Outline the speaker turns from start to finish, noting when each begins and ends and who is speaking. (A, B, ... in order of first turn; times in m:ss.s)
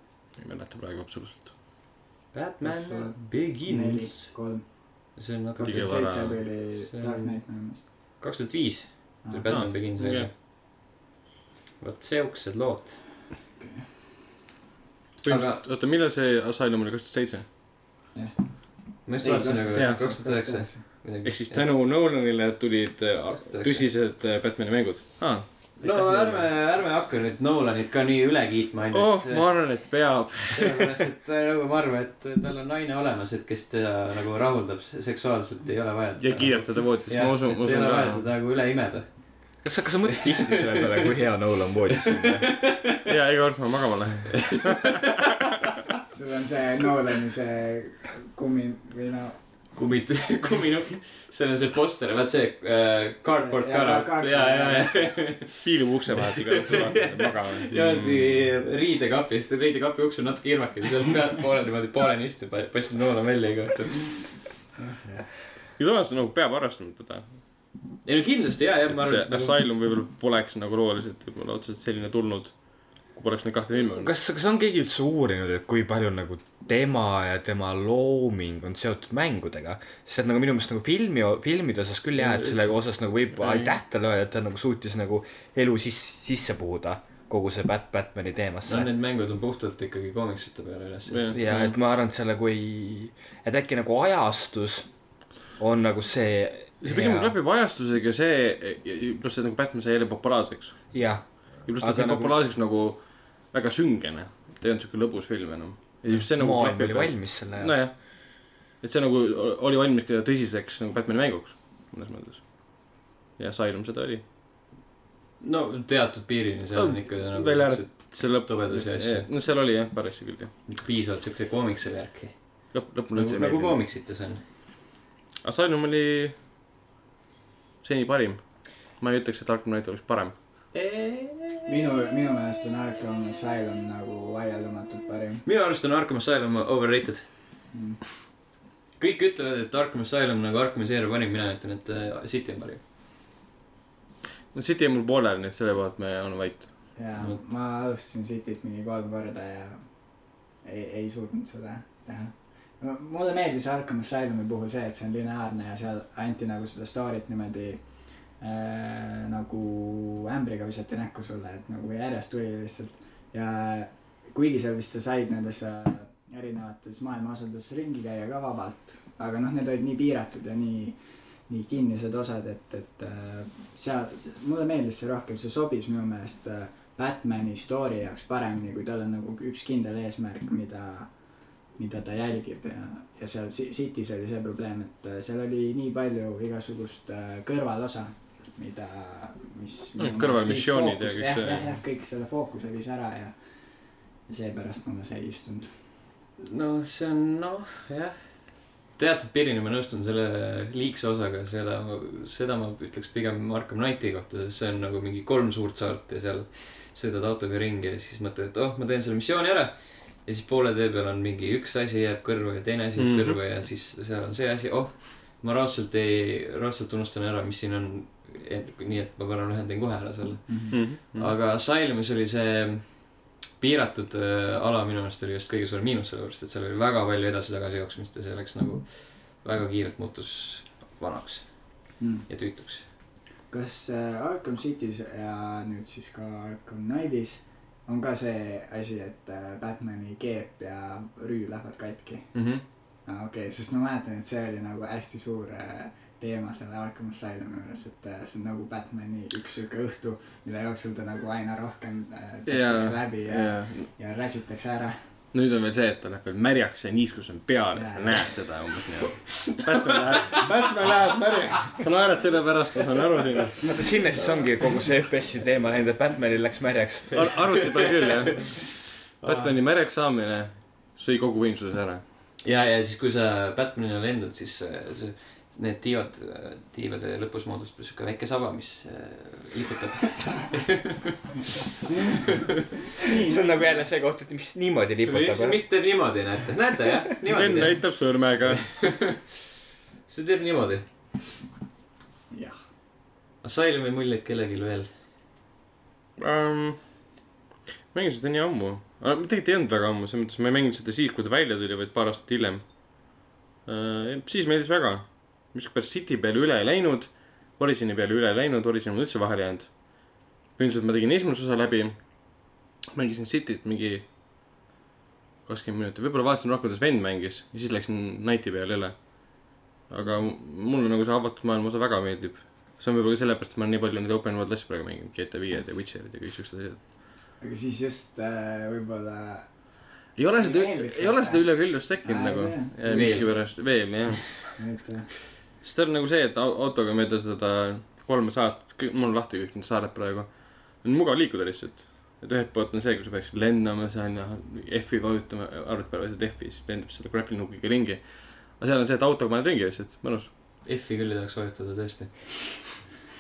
0:00.4-0:01.5 A
0:02.3-0:04.3 B
0:02.6-0:07.8 C
0:05.1-0:10.3 B
0:05.6-0:06.5 A
0:09.2-0:09.8 C
0:09.5-0:10.3 A
0:11.8-0:13.0 B
0:13.6-0:14.1 C
0:15.2-0:15.6 B
0:15.2-0:17.4 A
0:18.1-0:20.8 C
0:19.0-0:21.7 B
0:19.7-0:20.2 A
0:21.2-0:26.5 A
0:23.3-0:23.9 B
0:25.8-0:29.7 B
0:28.9-0:31.0 A
0:30.4-0:39.5 B
0:36.2-0:38.2 A
0:39.6-0:42.5 D
0:40.1-0:41.0 B
0:42.0-0:43.0 B
0:43.0-0:45.0 A
0:44.7-0:45.1 B
0:46.1-0:49.4 C
0:49.7-1:04.2 B
0:53.3-0:55.4 C
0:55.6-0:58.4 A
1:04.8-1:05.3 C
1:05.8-1:07.4 A
1:08.0-1:09.6 B
1:08.9-1:14.1 A
1:13.7-1:28.9 D
1:22.2-1:22.8 B
1:23.4-1:23.7 A
1:28.6-1:31.7 B
1:31.1-1:31.7 A
1:31.3-1:34.9 D
1:35.5-1:37.3 D
1:36.8-1:54.2 A
1:40.9-1:42.4 D
1:46.1-1:47.8 D
1:55.4-1:59.3 B
1:56.7-2:00.5 A
2:00.7-2:04.4 B
2:02.7-2:03.8 A
2:05.4-2:06.4 A
2:07.8-2:10.3 A
2:10.7-2:11.7 B
2:11.6-2:15.4 C
2:15.4-2:17.3 B
2:17.7-2:18.0 C
2:19.0-2:22.8 B
2:24.5-2:26.9 A
2:26.9-3:13.4 C
3:10.0-3:11.7 A
3:14.2-3:15.8 C
3:16.4-3:52.9 B
3:33.0-3:33.4 A
3:40.5-3:40.8 C
3:40.7-3:41.3 A
3:52.0-3:52.3 C
3:53.5-4:15.0 C
4:02.3-4:02.6 B
4:12.4-4:13.9 A
4:15.3-4:23.8 A
4:17.7-4:18.3 C
4:20.1-4:20.4 B
4:23.6-4:27.4 D
4:27.1-4:32.0 A
4:27.2-4:28.6 B
4:29.2-4:29.6 B
4:32.4-4:41.6 B
4:42.1-4:42.6 B
4:43.0-4:43.8 C
4:43.1-4:45.6 D
4:45.0-4:49.3 B
4:47.2-4:49.0 A
4:50.0-4:50.8 B
4:53.4-4:54.9 B
4:56.2-4:57.0 A
4:57.9-5:14.0 A
5:15.4-5:26.8 A
5:27.4-5:29.8 C
5:30.2-5:34.6 A
5:30.4-5:33.5 C
5:32.8-5:33.5 B
5:34.6-5:35.1 C
5:35.6-5:50.3 A
5:50.6-5:52.3 B